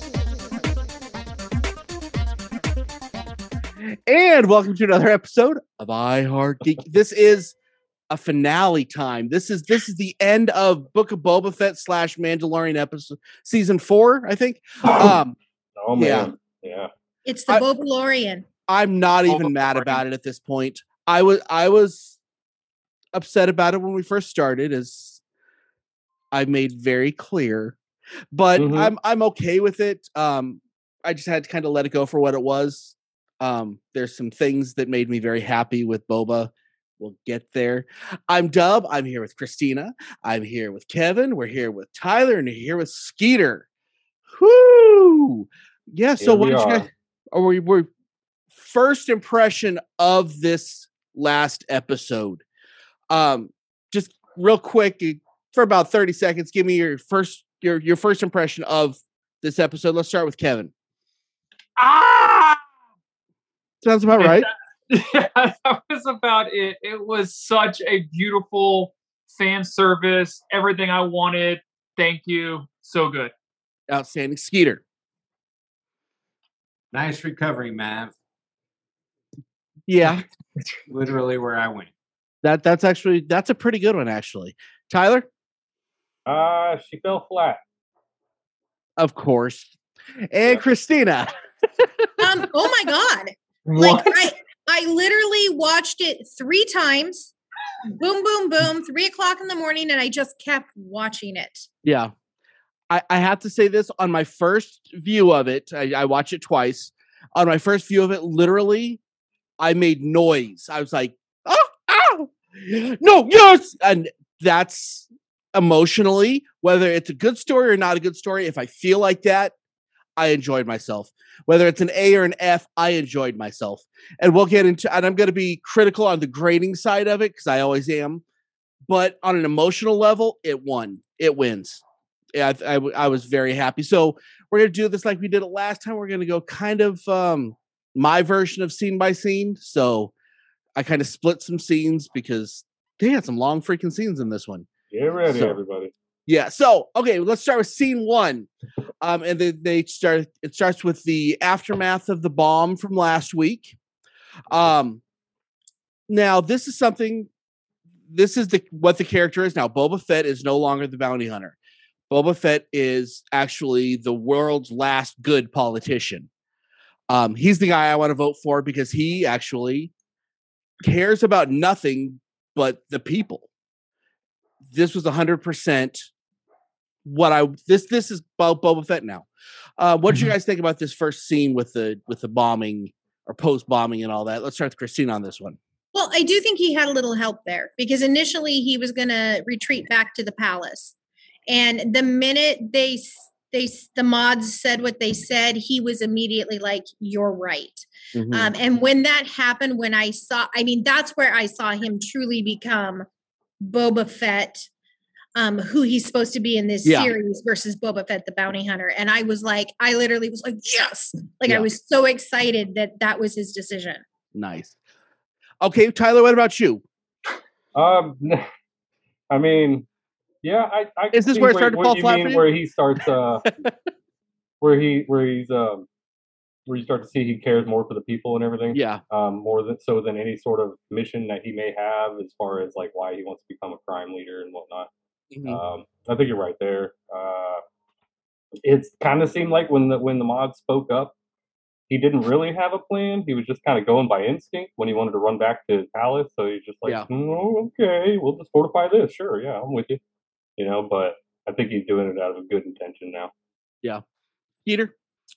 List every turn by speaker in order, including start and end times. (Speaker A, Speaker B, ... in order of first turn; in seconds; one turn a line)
Speaker A: 3.8-7.5
Speaker A: 8.1-15.3
Speaker B: 15.8-16.9
Speaker A: 15.9-16.3
Speaker C: 17.2-18.4
Speaker A: 18.7-22.2
Speaker D: 19.3-19.8
Speaker A: 23.1-25.2
Speaker A: 26.3-27.8
Speaker A: 28.3-43.6
Speaker B: 28.5-28.9
Speaker A: 44.3-47.9
Speaker B: 46.2-46.9
Speaker A: 48.5-52.4
Speaker A: 53.1-60.7
Speaker A: 61.8-62.6
Speaker A: 63.8-64.5
Speaker D: 64.2-73.3
Speaker A: 73.9-74.8
Speaker E: 76.9-78.1
Speaker A: 79.9-80.2
Speaker E: 80.9-81.9
Speaker A: 82.4-85.3
Speaker B: 86.3-87.6
Speaker A: 89.0-89.7
Speaker A: 90.3-91.3
Speaker A: 91.8-92.1
Speaker C: 92.2-97.3
Speaker D: 93.7-94.0
Speaker C: 97.9-101.7
Speaker A: 101.8-102.1
Speaker A: 102.9-109.0
Speaker A: 109.6-119.5
Speaker A: 120.2-128.2
Speaker A: 128.9-131.8
Speaker A: 132.3-140.1
Speaker A: 140.8-144.7
Speaker B: 144.9-145.9
Speaker A: 145.3-145.6
Speaker A: 146.3-148.5
Speaker A: 149.0-153.8
Speaker A: 154.5-155.0
Speaker A: 156.1-157.3
Speaker A: 158.1-161.6
Speaker A: 162.1-166.3
Speaker A: 167.1-169.9
Speaker A: 170.8-173.5
Speaker A: 174.6-176.1
Speaker A: 177.0-179.3
Speaker A: 179.8-185.6
Speaker C: 185.9-190.9
Speaker C: 191.5-203.1
Speaker A: 198.1-198.5
Speaker C: 203.6-204.7
Speaker C: 205.3-214.0
Speaker A: 206.8-207.1
Speaker A: 214.3-214.8
Speaker A: 215.6-216.8
Speaker B: 217.7-218.4
Speaker B: 219.3-219.8
Speaker B: 220.4-223.5
Speaker A: 221.1-222.5
Speaker B: 224.6-225.8
Speaker B: 226.7-234.9
Speaker A: 228.7-229.0
Speaker A: 235.3-235.6
Speaker B: 235.4-237.6
Speaker B: 238.6-241.1
Speaker B: 241.9-250.0
Speaker B: 250.6-253.3
Speaker A: 254.6-254.9